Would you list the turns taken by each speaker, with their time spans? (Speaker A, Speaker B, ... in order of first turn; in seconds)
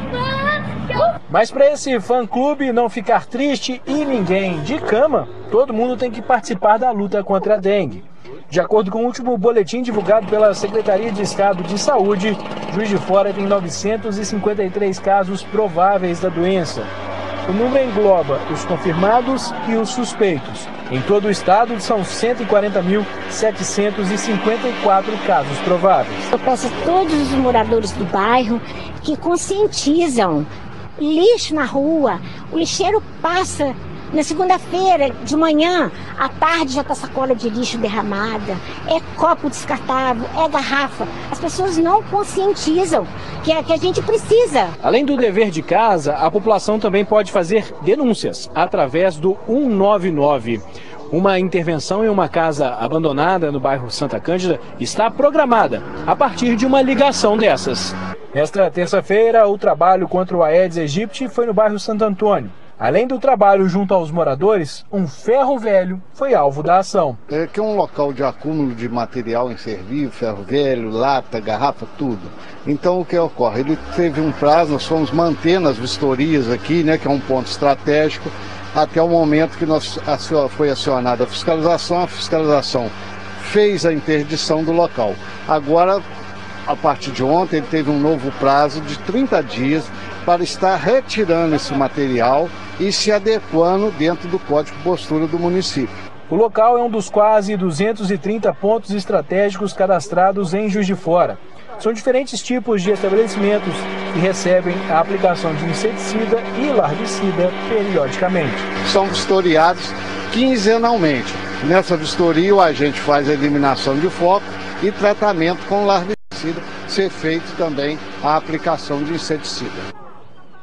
Speaker A: 1.3-16.9, 17.4-26.3, 44.8-67.2, 96.3-108.7
Speaker B: 26.3-30.5, 31.0-44.8
Speaker C: 67.3-86.0, 86.7-95.9, 108.8-119.9